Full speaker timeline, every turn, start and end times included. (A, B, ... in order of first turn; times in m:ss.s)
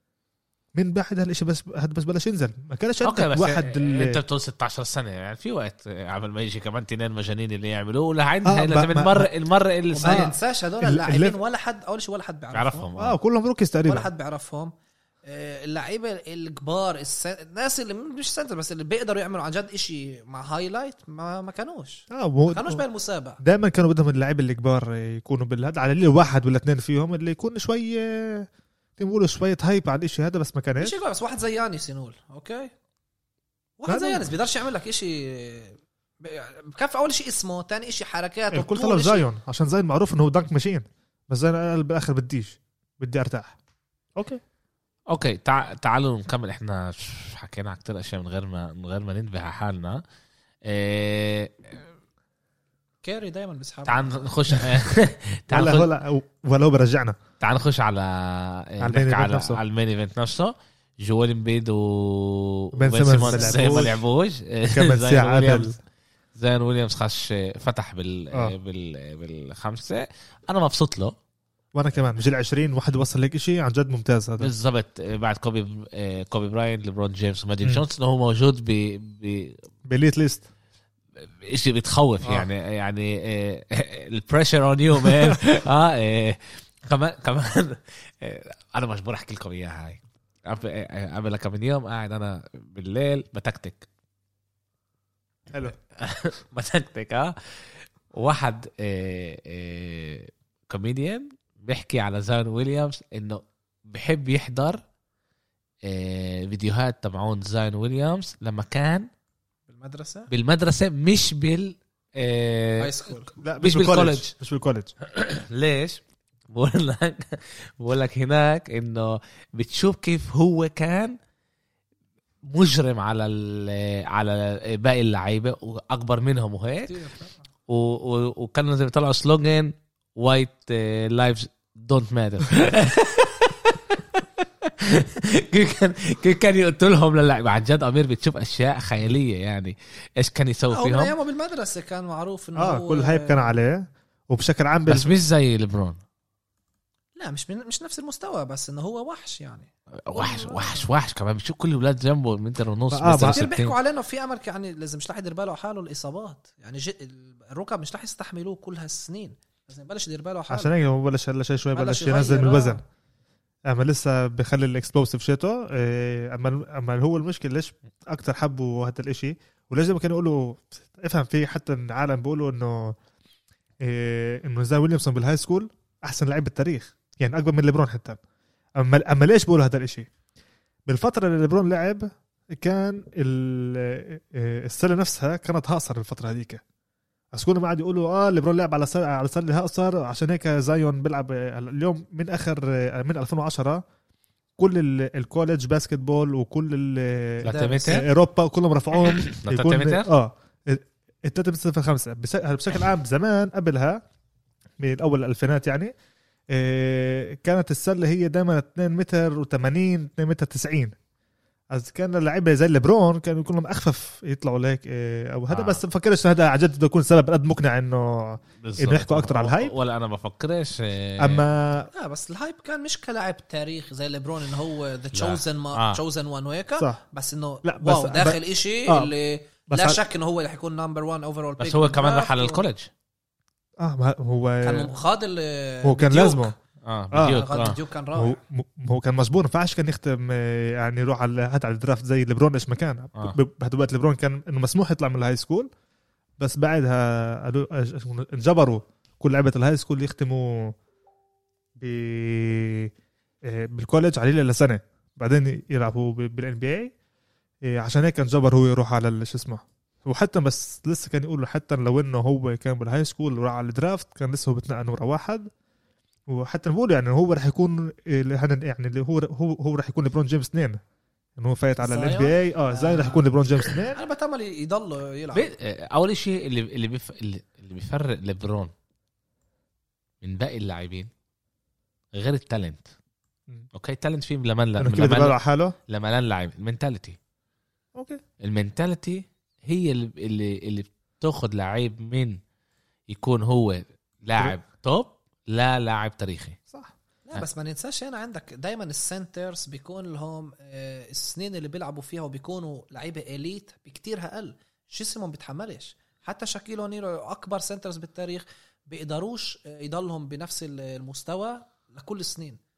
0:00.7-0:04.2 A
0:03.0-0:10.3 B
0:08.4-0:09.3 A
0:09.9-0:12.9 C
0:10.0-0:11.4 A
0:12.5-0:13.2 B
0:13.0-0:14.1 A
0:13.8-0:14.7 C
0:15.2-0:23.4 C
0:22.1-0:22.8 A
0:23.4-0:31.0 A
0:30.8-0:32.7 C
0:33.8-0:39.2 C
0:33.9-0:34.3 A
0:38.5-0:43.6 A
0:44.2-0:44.4 A
0:45.1-0:50.0 B
0:50.6-0:51.8 B
0:53.0-0:54.3 C
0:53.8-0:55.9 B
0:55.5-0:57.2 A
0:57.4-1:05.8 B
0:58.8-0:59.6 A
1:02.8-1:04.0 A
1:03.3-1:03.8 C
1:04.7-1:05.8 A
1:06.4-1:11.1 B
1:11.7-1:14.5 A
1:14.4-1:19.6 B
1:19.9-1:20.4 A
1:21.4-1:33.9 B
1:36.0-1:37.3 B
1:38.1-1:44.8 B
1:45.8-1:49.1 B
1:49.7-1:50.3 C
1:50.3-1:52.9 B
1:52.8-1:53.3 C
1:53.4-1:54.9 A
1:53.6-1:54.3 B
1:55.0-2:01.2 B
2:02.4-2:06.9 B
2:06.8-2:07.4 C
2:07.7-2:21.1 B
2:20.7-2:23.5 C
2:22.6-2:25.1 A
2:24.9-2:26.0 B
2:27.2-2:30.9 C
2:30.1-2:33.8 B
2:32.9-2:33.4 A
2:33.2-2:40.7 C
2:40.5-2:42.8 A
2:41.7-2:42.8 C
2:43.7-2:53.0 A
2:53.8-2:58.2 A
2:58.8-3:00.1 A
3:00.9-3:06.6 A
3:07.3-3:13.8 A
3:14.6-3:24.0 A
3:17.4-3:18.1 B
3:17.4-3:18.0 C
3:19.0-3:20.1 B
3:24.8-3:25.9 A
3:26.5-3:30.9 A
3:31.7-3:39.7 A
3:35.5-3:35.8 B
3:38.6-3:41.4 B
3:41.2-3:41.9 A
3:41.9-3:52.6 C
3:45.1-3:46.0 B
3:47.6-3:49.1 A
3:49.7-3:50.0 A
3:51.6-3:52.9 B
3:53.8-3:54.9 A
3:54.6-3:56.5 C
3:55.8-3:56.5 A
3:56.8-3:57.8 B
3:57.1-3:57.4 A
3:57.2-3:58.4 C
3:58.1-4:05.7 A
4:06.4-4:10.7 A
4:11.8-4:12.9 A
4:13.5-4:16.9 A
4:17.6-4:25.5 A
4:26.3-4:30.8 A
4:31.4-4:34.0 A
4:31.8-4:33.2 C
4:33.9-4:35.5 C
4:35.3-4:38.7 B
4:40.2-4:41.1 B
4:42.1-4:42.9 B
4:43.7-4:45.4 B
4:44.8-4:45.8 A
4:45.9-4:47.2 B
4:47.9-4:48.2 A
4:48.4-4:52.4 B
4:53.1-4:56.6 B
4:57.3-5:12.6 C